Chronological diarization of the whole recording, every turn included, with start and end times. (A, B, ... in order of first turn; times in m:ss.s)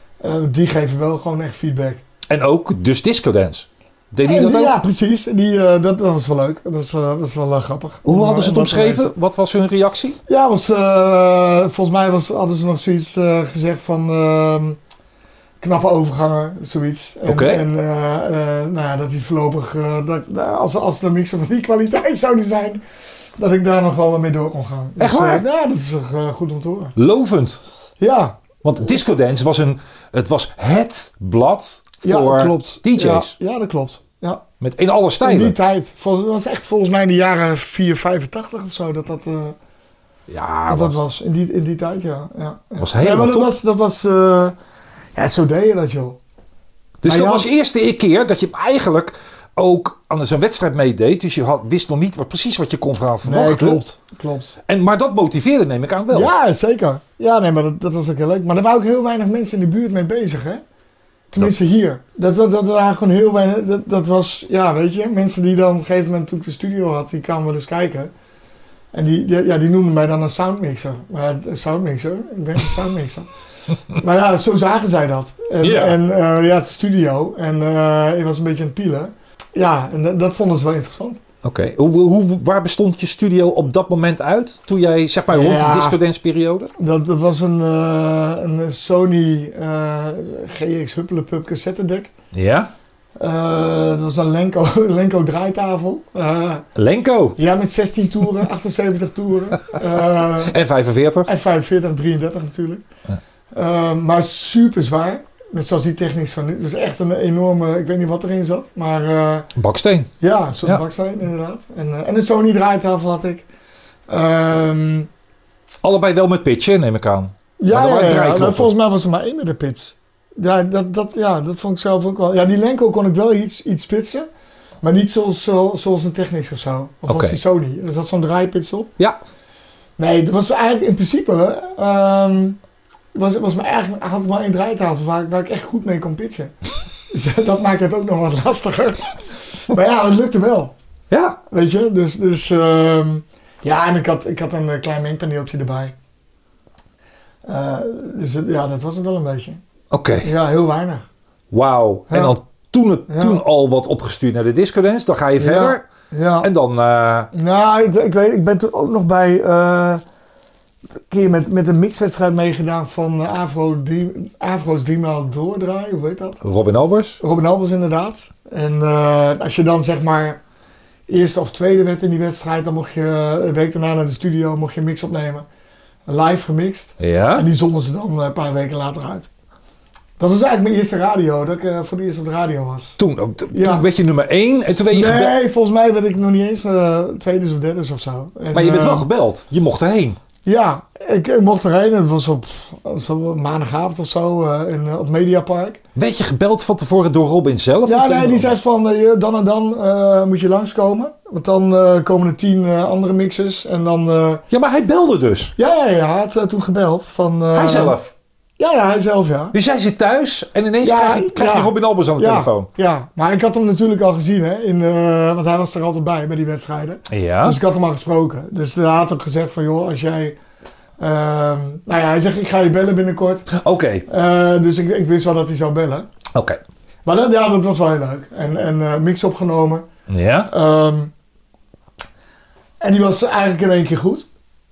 0:00.2-0:02.0 A
0:02.3-0:04.8 B
0:04.2-0:09.1 A
0:08.0-0:10.2 B
0:10.3-0:14.8 A
0:15.6-0:22.8 A
0:17.3-0:17.6 B
0:23.4-0:27.0 A
0:25.0-0:25.5 B
0:27.0-0:27.6 B
0:28.0-0:29.0 A
0:28.6-0:33.4 B
0:32.0-0:34.4 A
0:34.6-0:35.6 B
0:35.2-0:39.6 A
0:40.3-0:41.0 B
0:40.7-0:44.6 A
0:42.8-0:43.5 B
0:45.2-0:46.2 A
0:47.0-0:53.8 B
0:47.0-0:47.5 A
0:53.2-0:54.6 A
0:54.7-0:56.3 B
0:56.1-1:00.6 A
1:01.3-1:08.1 A
1:08.9-1:13.3 A
1:13.9-1:21.2 A
1:15.6-1:16.0 B
1:21.4-1:26.7 B
1:25.3-1:26.0 A
1:26.8-1:32.1 A
1:32.3-1:32.7 B
1:33.2-1:36.7 A
1:36.8-1:37.4 B
1:37.4-1:40.6 A
1:39.7-1:41.3 B
1:41.3-1:42.8 A
1:43.5-1:49.5 A
1:49.6-1:50.1 B
1:50.2-1:53.5 A
1:54.1-1:55.1 A
1:55.8-1:58.7 B
1:57.6-2:04.3 A
2:04.8-2:08.9 A
2:07.1-2:07.4 B
2:10.0-2:12.6 A
2:13.1-2:16.5 A
2:17.1-2:20.7 A
2:21.1-2:21.4 B
2:21.5-2:25.9 A
2:27.4-2:29.6 A
2:29.9-2:30.3 B
2:30.2-2:31.1 A
2:31.5-2:35.8 B
2:32.1-2:32.4 A
2:33.1-2:33.4 A
2:35.4-2:36.5 A
2:36.4-2:37.3 B
2:37.3-2:40.0 A
2:41.0-2:46.4 A
2:46.4-2:47.2 B
2:47.2-2:50.4 A
2:51.1-2:55.5 A
2:56.1-2:59.3 A
2:57.0-2:57.5 B
3:00.2-3:03.0 A
3:03.0-3:05.4 B
3:03.5-3:03.9 A
3:04.9-3:09.1 A
3:08.5-3:10.2 B
3:10.4-3:15.8 A
3:16.0-3:18.6 B
3:17.8-3:24.4 A
3:24.5-3:25.5 B
3:25.6-3:28.0 A
3:27.5-3:28.1 B
3:28.6-3:29.6 A
3:29.5-3:32.7 B
3:30.8-3:40.4 A
3:37.1-3:37.6 B
3:41.0-3:43.5 A
3:43.5-3:44.1 B
3:44.1-3:46.1 A
3:46.3-3:46.6 B
3:47.0-3:49.8 A
3:50.1-3:50.5 B
3:50.5-3:51.1 A
3:52.8-3:54.3 A